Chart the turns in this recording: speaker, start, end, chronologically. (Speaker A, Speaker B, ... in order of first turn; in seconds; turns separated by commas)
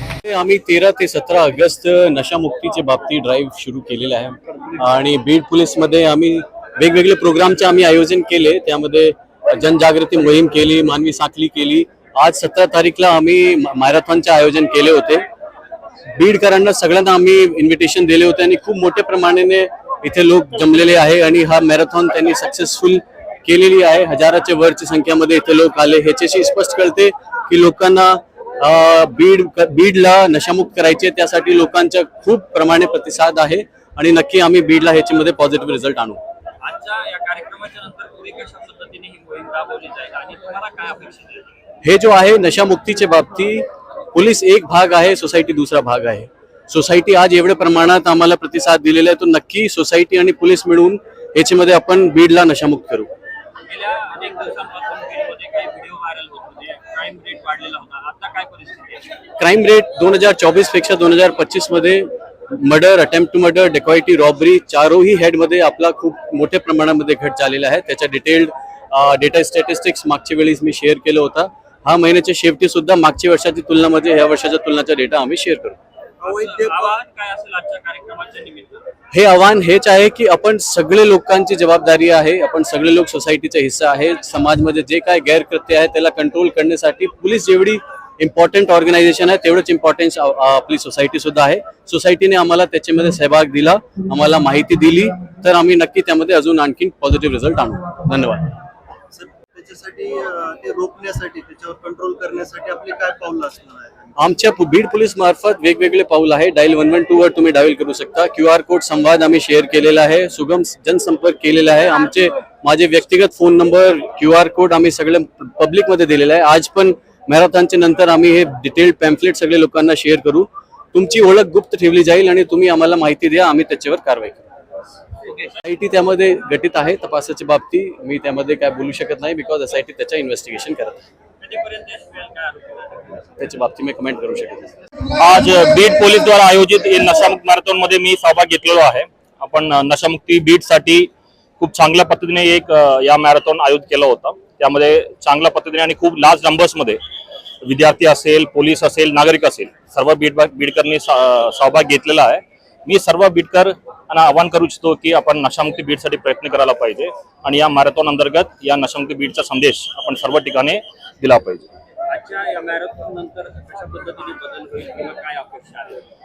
Speaker A: 0.2-15.2, Speaker A: 16.1-36.2, Speaker B: 36.6-41.4, Speaker A: 41.8-53.1, Speaker B: 53.7-59.1, Speaker A: 59.4-75.8, Speaker B: 76.2-78.8, Speaker C: 76.3-76.9, Speaker A: 79.1-98.5, Speaker C: 99.1-104.1, Speaker A: 104.2-124.5, Speaker A: 125.6-131.1, Speaker B: 131.4-133.3, Speaker A: 133.4-134.7, Speaker D: 135.1-147.0, Speaker D: 147.6-161.6, Speaker B: 162.1-166.0